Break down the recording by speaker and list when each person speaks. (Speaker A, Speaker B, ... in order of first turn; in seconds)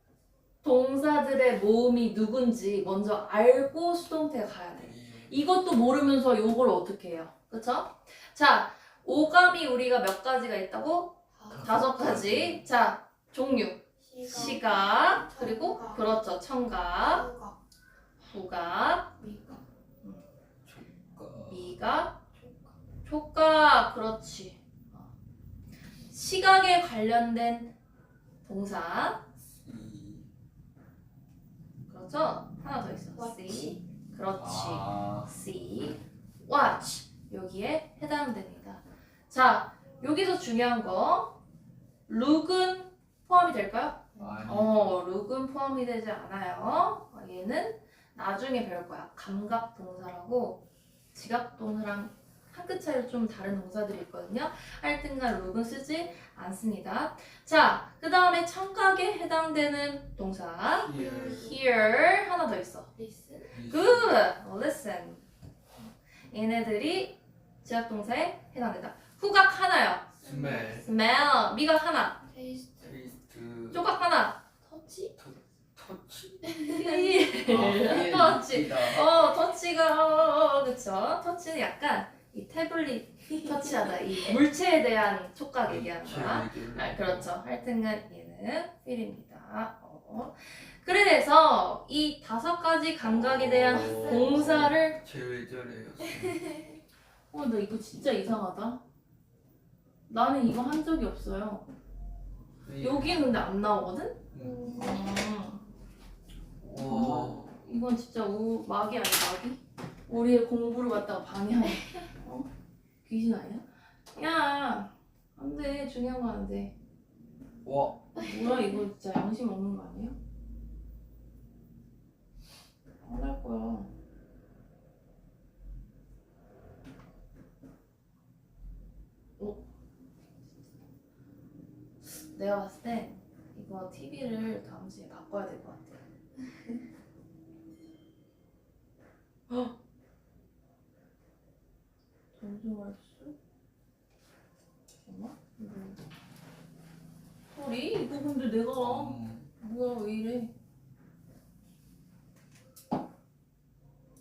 Speaker A: 0.6-17.3, 18.2-19.1, 21.5-22.2, 23.1-25.1, 26.1-27.7, 28.4-29.2, 31.9-41.4, 42.1-50.6, 51.1-62.9, 63.7-65.2, 66.3-72.2, 73.7-74.4, 76.7-95.0, 97.3-98.8, 100.1-101.7, 102.8-104.2, 104.7-105.6, 106.8-112.5, 113.0-116.7, 118.1-120.2, 123.0-123.9, 129.4-129.6, 132.2-136.8, 139.5-139.7, 142.3-143.3, 145.0-146.0, 147.5-150.5
Speaker B: 4.7-5.4, 11.5-12.7, 14.3-14.6, 20.6-21.8, 29.4-30.3, 34.4-35.3, 44.1-45.0, 60.8-61.6, 63.5-64.2, 70.2-70.9, 72.8-73.9, 75.2-76.5, 77.4-79.2, 85.6-87.3, 93.0-96.5, 102.6-103.3, 104.3-104.7, 106.6-107.7, 117.6-118.1, 148.8-149.5
Speaker C: 11.3-11.7, 14.0-16.1, 17.0-17.6, 19.2-19.6, 22.3-22.7, 33.1-33.8, 44.1-44.5, 60.6-61.6, 63.0-63.6, 70.2-70.8, 72.3-72.9, 74.6-75.1, 76.4-77.3, 83.3-84.4, 93.7-94.7, 96.0-96.8, 104.3-105.2, 118.2-118.8